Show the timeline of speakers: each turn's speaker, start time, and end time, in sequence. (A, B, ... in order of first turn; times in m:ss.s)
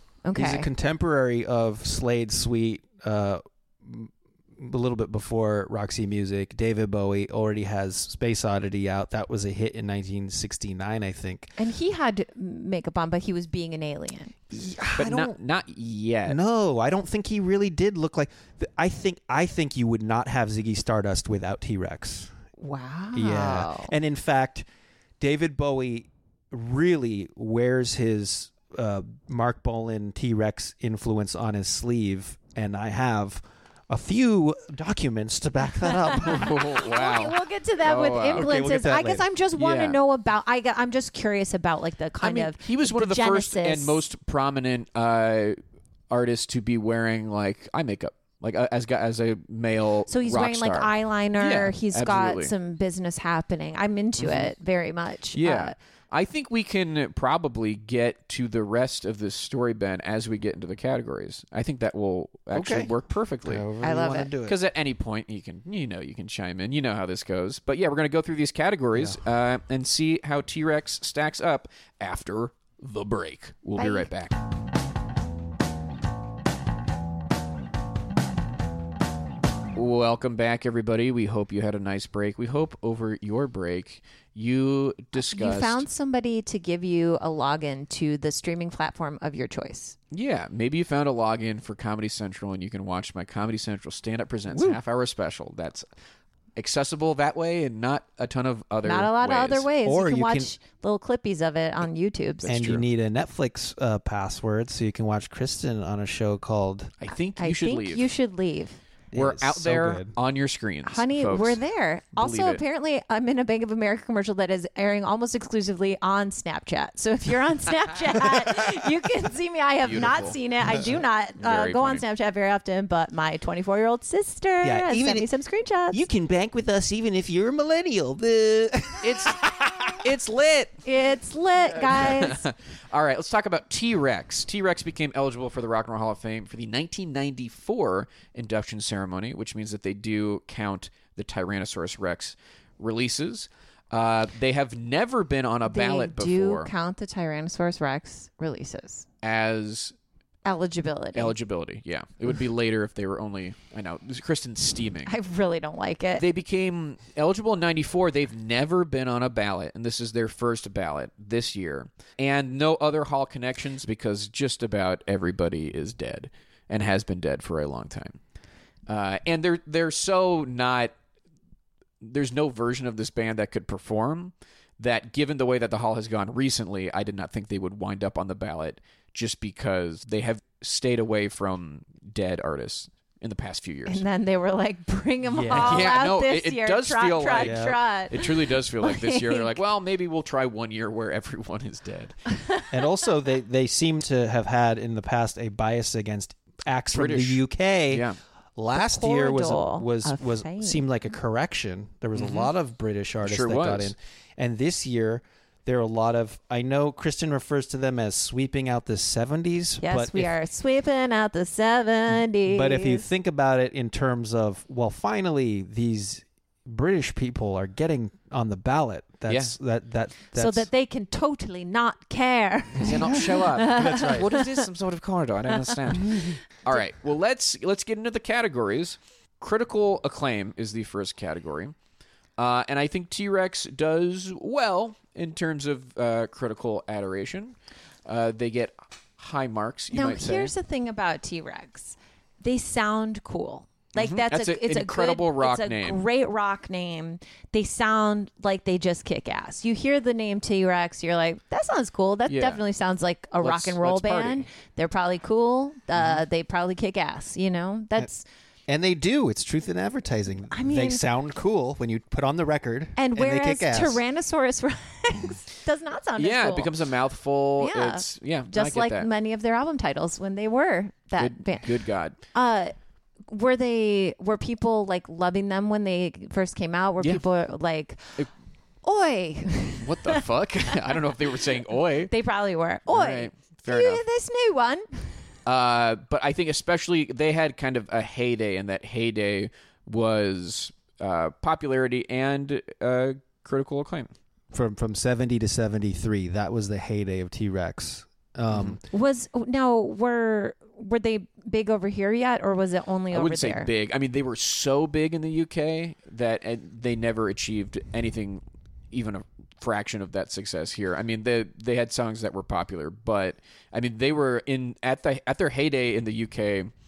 0:00.2-0:00.7 A
0:00.4-0:11.5 B
0:11.6-0:14.4 A
0:14.5-0:15.4 B
0:15.0-0:16.4 C
0:16.3-0:22.3 B
0:22.6-0:23.9 A
0:23.1-0:24.7 B
0:25.2-0:36.6 B
0:35.8-0:44.0 A
0:36.2-0:38.6 C
0:38.4-0:39.2 B
0:39.6-0:40.0 C
0:42.2-0:45.6 C
0:46.1-0:52.5 C
0:50.1-0:55.8 A
0:54.2-0:54.5 C
0:55.3-1:03.7 C
1:02.5-1:02.9 B
1:03.4-1:04.6 B
1:03.8-1:04.3 A
1:04.4-1:14.3 C
1:08.9-1:09.2 B
1:13.8-1:14.1 A
1:19.8-1:25.9 C
1:25.1-1:30.0 A
1:30.1-1:35.8 C
1:34.5-1:34.8 B
1:36.6-1:39.7 C
1:38.8-1:42.5 A
1:39.8-1:40.5 B
1:42.4-1:42.8 C
1:42.5-1:46.9 B
1:47.0-1:48.1 C
1:47.4-1:48.8 A
1:49.1-1:50.1 B
1:49.2-1:51.6 C
1:50.8-2:06.0 A
1:52.2-1:52.6 C
1:59.8-2:00.4 C
2:01.4-2:02.0 C
2:04.6-2:05.3 B
2:05.9-2:09.4 B
2:09.0-2:10.8 C
2:10.8-2:12.4 A
2:11.8-2:26.7 C
2:25.6-2:29.0 A
2:29.2-2:30.0 C
2:30.4-2:31.4 A
2:31.1-2:35.1 C
2:35.0-2:36.2 A
2:36.2-2:48.2 C
2:48.9-2:50.9 C
2:52.0-3:04.0 C
3:03.9-3:09.6 A
3:05.3-3:05.9 B
3:05.5-3:12.2 C
3:07.3-3:07.8 B
3:12.7-3:18.0 B
3:16.9-3:18.2 C
3:18.6-3:30.3 B
3:18.7-3:20.8 A
3:22.2-3:22.5 C
3:23.2-3:23.9 C
3:29.8-3:33.1 A
3:32.5-3:40.7 B
3:39.3-3:39.6 C
3:40.4-3:44.7 A
3:42.8-3:51.7 C
3:43.6-3:44.3 B
3:52.4-3:57.6 C
3:58.1-4:00.6 C
3:59.9-4:18.2 A
4:04.0-4:06.1 C
4:12.3-4:12.6 C
4:13.4-4:14.5 C
4:16.0-4:16.2 C
4:18.7-4:24.0 B
4:20.5-4:21.0 A
4:23.0-4:26.7 A
4:26.2-4:29.1 C
4:27.6-4:31.7 A
4:31.2-4:32.2 C
4:32.3-4:32.7 A
4:33.3-4:38.2 A
4:38.8-4:41.0 A
4:39.8-4:42.1 C
4:42.1-4:44.9 A
4:42.9-4:44.0 C
4:45.5-4:54.1 C
4:54.5-4:58.8 B
4:58.5-4:58.8 C
4:58.9-5:03.7 A
5:03.1-5:16.7 C